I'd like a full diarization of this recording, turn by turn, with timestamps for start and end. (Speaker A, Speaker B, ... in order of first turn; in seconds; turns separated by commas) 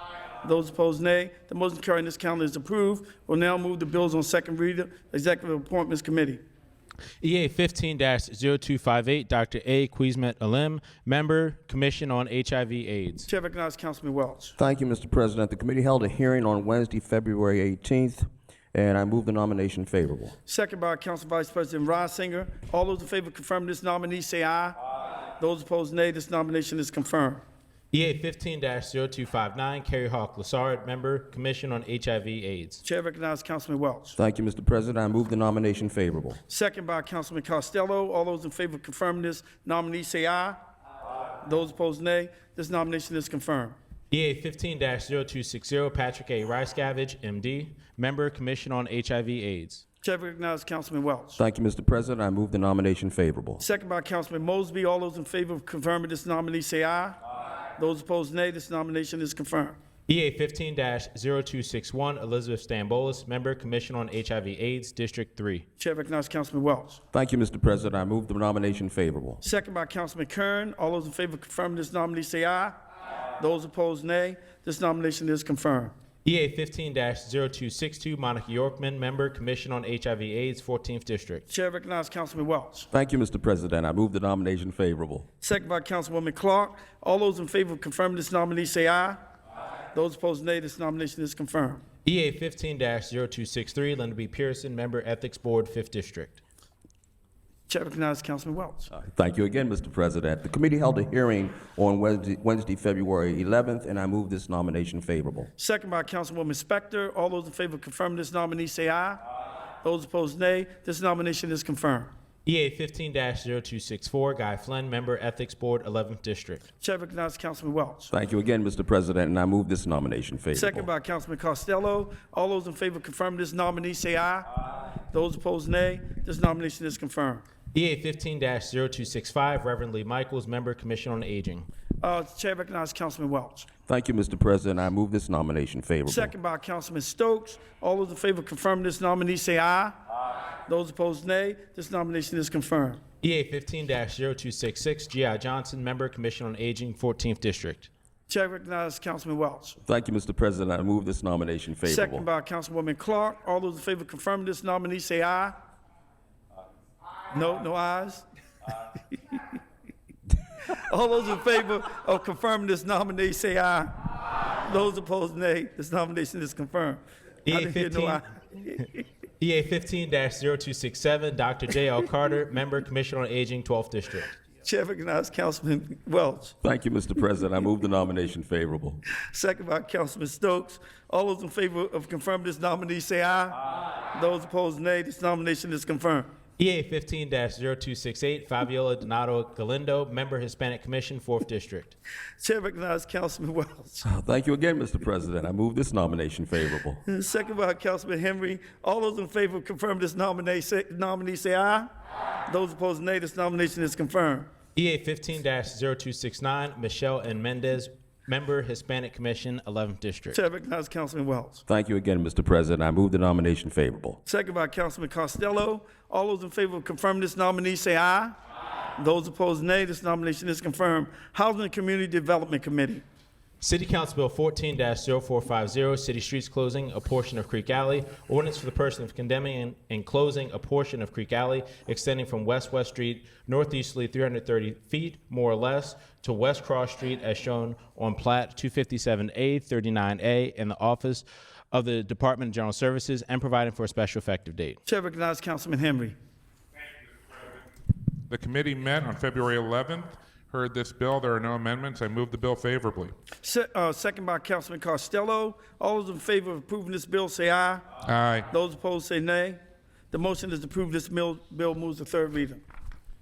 Speaker A: 0.4-6.4, Speaker B: 7.2-13.3, Speaker A: 13.3-14.5, Speaker C: 14.6-20.4, Speaker A: 20.5-24.8, Speaker A: 25.4-27.4, Speaker B: 27.9-32.8, Speaker A: 32.8-34.2, Speaker C: 34.2-36.4, Speaker A: 36.5-40.6, Speaker A: 41.4-43.8, Speaker B: 44.1-49.8, Speaker A: 50.0-51.4, Speaker C: 51.4-53.6, Speaker A: 53.6-57.2, Speaker A: 57.8-59.8, Speaker B: 60.1-65.7, Speaker A: 65.8-67.0, Speaker C: 67.1-69.4, Speaker A: 69.4-72.8, Speaker A: 73.4-75.9, Speaker B: 76.2-81.5, Speaker A: 81.5-82.9, Speaker C: 82.9-85.3, Speaker A: 85.4-89.2, Speaker A: 89.9-91.8, Speaker B: 92.0-96.4, Speaker A: 97.7-98.9, Speaker C: 98.9-105.5, Speaker A: 105.6-109.2, Speaker A: 109.8-112.1, Speaker B: 112.5-116.7, Speaker A: 116.8-118.1, Speaker C: 118.1-120.9, Speaker A: 120.5-124.5, Speaker A: 125.1-127.5, Speaker B: 127.7-131.7, Speaker A: 132.0-133.7, Speaker C: 133.9-136.3, Speaker A: 136.1-139.9, Speaker A: 140.7-143.0, Speaker B: 143.2-147.9, Speaker A: 148.3-149.8, Speaker C: 149.8-152.3, Speaker A: 151.8-155.6, Speaker A: 157.3-158.2, Speaker A: 160.7-163.9, Speaker A: 164.6-169.0, Speaker B: 167.5-168.2, Speaker B: 169.4-174.4, Speaker A: 174.6-176.6, Speaker C: 176.6-179.0, Speaker A: 179.2-186.3, Speaker B: 186.6-192.0, Speaker A: 192.4-194.1, Speaker C: 194.0-197.0, Speaker A: 197.1-201.9, Speaker A: 202.5-204.5, Speaker B: 204.8-210.4, Speaker A: 210.3-211.6, Speaker C: 211.7-214.2, Speaker A: 214.3-218.4, Speaker A: 219.0-223.0, Speaker B: 223.6-244.8, Speaker A: 244.9-246.2, Speaker D: 248.3-253.1, Speaker A: 253.4-257.8, Speaker D: 258.0-258.5, Speaker A: 258.5-259.6, Speaker A: 260.1-262.6